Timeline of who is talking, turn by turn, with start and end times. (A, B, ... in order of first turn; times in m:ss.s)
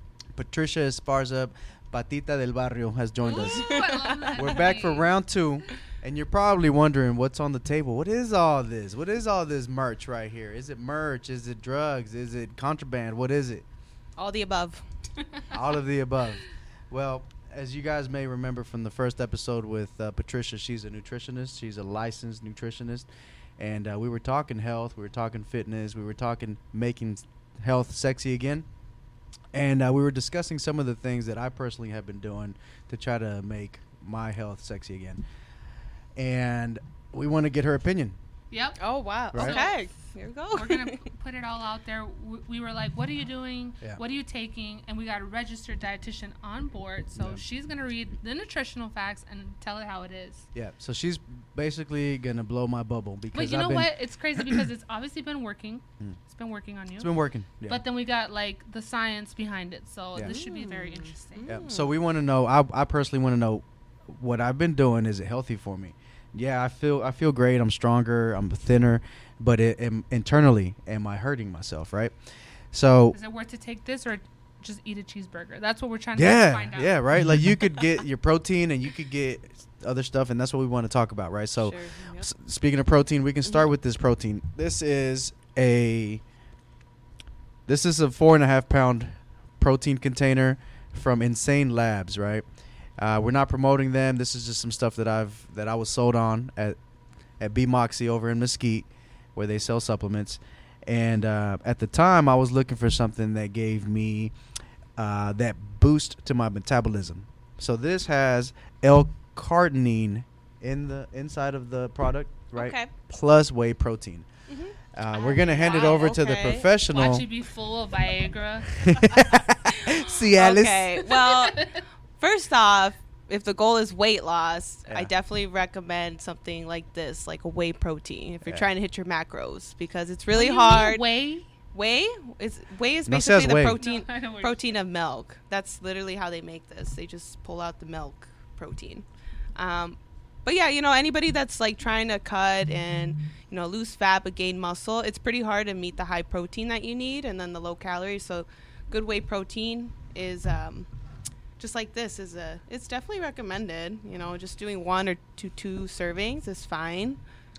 0:00.4-0:13.7 A
0:03.3-0:05.1 B
0:03.3-0:04.6 C
0:14.2-0:14.8 C
0:15.5-0:28.7 A
0:29.5-0:35.2 A
0:36.2-0:38.2 A
0:38.5-0:38.8 B
0:38.8-0:41.0 C
0:39.3-0:39.6 A
0:39.3-0:39.8 B
0:40.5-0:50.5 B
0:47.1-0:47.4 A
0:50.6-0:53.9 A
0:53.3-1:01.5 B
0:57.0-0:57.8 A
1:00.2-1:01.9 C
1:01.5-1:12.2 A
1:12.7-1:13.2 A
1:13.1-1:17.0 B
1:16.2-1:26.2 A
1:21.6-1:22.3 C
1:27.7-1:32.4 A
1:33.0-1:36.8 A
1:37.4-1:44.3 A
1:45.0-1:54.3 A
1:52.5-1:52.9 C
1:54.5-1:56.7 C
1:54.9-1:57.3 A
1:56.9-1:58.9 B
1:58.8-2:01.0 A
1:59.8-2:11.0 C
2:01.3-2:01.8 B
2:10.3-2:11.5 B
2:11.7-2:30.9 C
2:13.1-2:13.8 A
2:13.7-2:14.7 B
2:31.6-2:37.2 C